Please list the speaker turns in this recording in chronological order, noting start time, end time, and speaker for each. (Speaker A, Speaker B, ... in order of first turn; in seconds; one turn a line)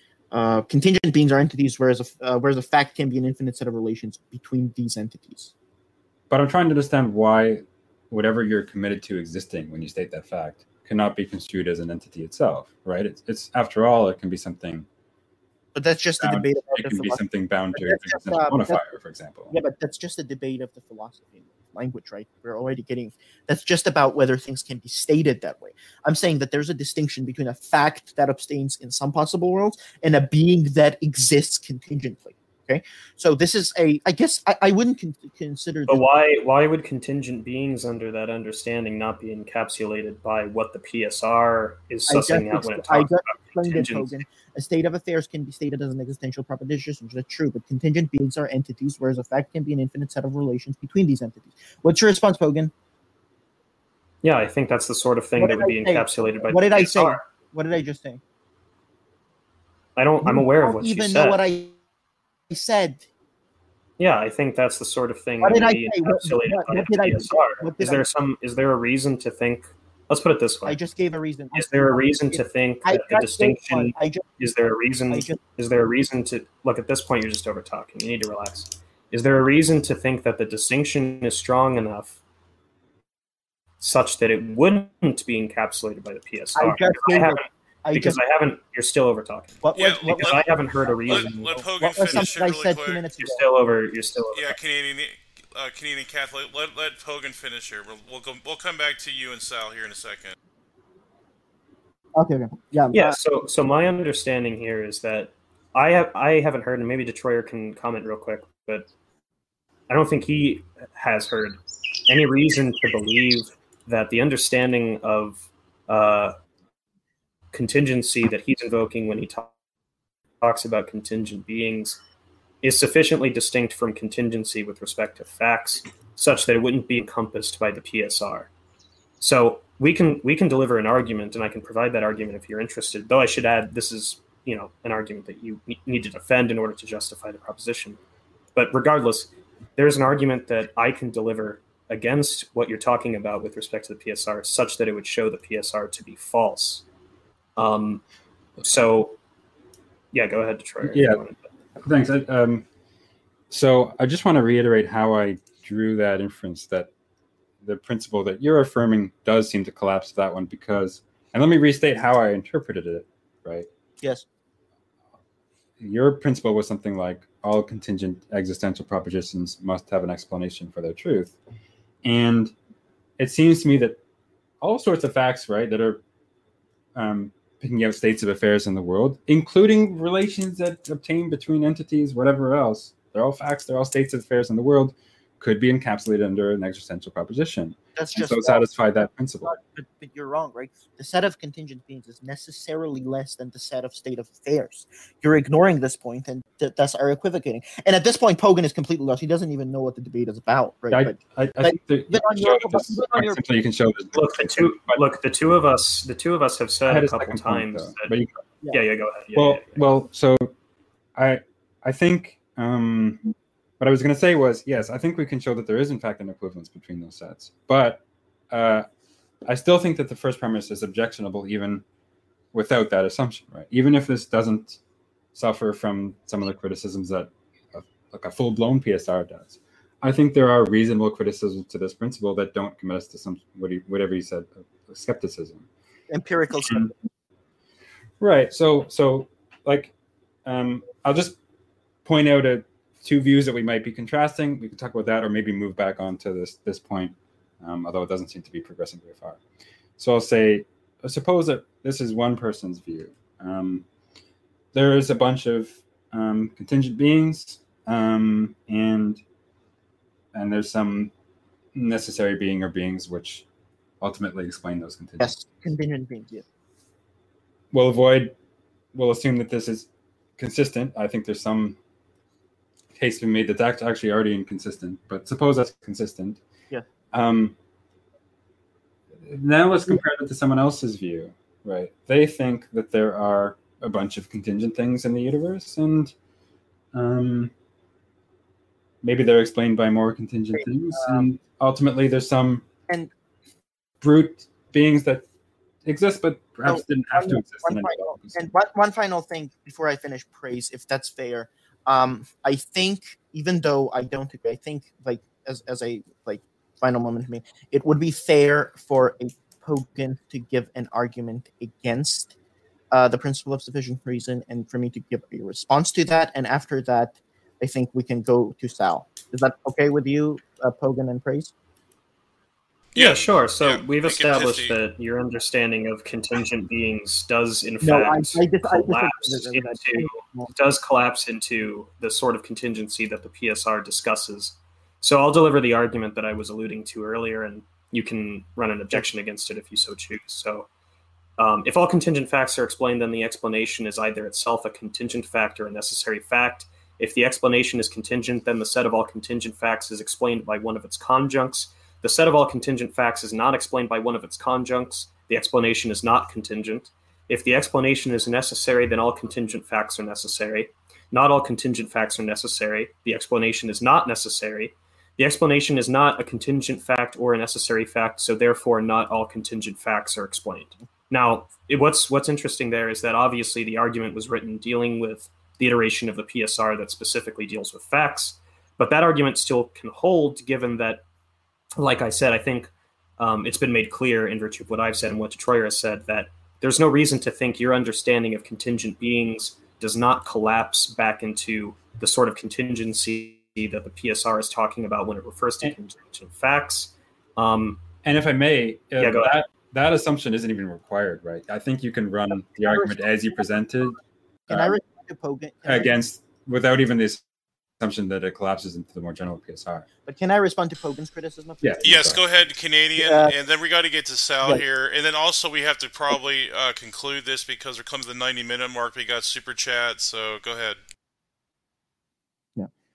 Speaker A: 0.3-5.5
Speaker B: 6.3-14.9
Speaker A: 15.8-17.2
Speaker B: 16.2-19.6
Speaker A: 17.7-18.8
Speaker A: 19.5-36.0
Speaker C: 35.9-44.2
Speaker A: 42.1-52.7
Speaker C: 54.2-57.2
Speaker A: 55.4-58.2
Speaker C: 60.0-61.4
Speaker A: 60.2-61.8
Speaker A: 62.5-63.1
Speaker C: 64.0-70.8
Speaker A: 65.4-68.0
Speaker A: 70.7-74.3
Speaker C: 71.5-82.2
Speaker A: 75.1-75.4
Speaker C: 83.8-92.3
Speaker A: 86.5-88.2
Speaker A: 89.6-93.4
Speaker D: 89.7-90.5
Speaker D: 91.1-93.0
Speaker C: 93.2-94.6
Speaker D: 94.3-100.3
Speaker A: 102.2-103.2
Speaker C: 102.9-108.9
Speaker C: 109.9-116.3
Speaker C: 117.5-119.5
Speaker C: 120.4-122.0
Speaker C: 122.6-128.5
Speaker C: 129.2-138.0
Speaker C: 138.6-146.8
Speaker C: 147.6-148.0
Speaker C: 148.6-149.2
Speaker C: 150.1-151.4
Speaker B: 150.8-151.2
Speaker B: 151.8-152.7
Speaker B: 153.5-156.9
Speaker B: 157.6-163.7
Speaker B: 165.8-171.4
Speaker B: 172.0-172.5
Speaker B: 173.2-174.0
Speaker B: 174.6-176.0
Speaker B: 176.9-189.5
Speaker A: 187.9-188.7
Speaker A: 189.4-203.4
Speaker B: 200.9-205.0
Speaker C: 204.1-208.1
Speaker B: 206.9-208.4
Speaker C: 208.7-209.8
Speaker B: 209.4-210.5
Speaker B: 211.2-213.2
Speaker B: 213.8-218.9
Speaker B: 219.4-221.8
Speaker B: 222.5-224.8
Speaker B: 225.3-235.7
Speaker A: 236.1-237.0
Speaker B: 236.7-236.9
Speaker B: 238.2-239.9
Speaker B: 240.4-241.4
Speaker B: 242.1-249.4
Speaker B: 250.0-253.8
Speaker B: 254.7-259.2
Speaker B: 260.3-261.1
Speaker B: 261.7-263.4
Speaker B: 264.0-265.4
Speaker A: 265.2-266.4
Speaker B: 267.7-268.4
Speaker B: 268.9-271.8
Speaker B: 272.9-276.4
Speaker B: 277.1-277.6
Speaker B: 279.2-286.1
Speaker B: 286.9-287.5
Speaker B: 289.0-292.6
Speaker A: 290.6-291.3
Speaker B: 294.0-295.2
Speaker B: 295.9-298.4
Speaker A: 296.6-312.4
Speaker A: 312.9-321.5
Speaker D: 322.9-324.8
Speaker C: 322.9-340.7
Speaker A: 327.8-330.5
Speaker C: 341.4-381.0
Speaker C: 381.8-397.8
Speaker B: 398.0-404.7
Speaker C: 399.0-399.4
Speaker A: 402.6-403.1
Speaker A: 404.5-405.9
Speaker B: 405.7-407.2
Speaker B: 407.8-409.9
Speaker A: 410.1-412.2
Speaker B: 411.6-412.2
Speaker D: 411.8-420.8
Speaker A: 413.0-413.3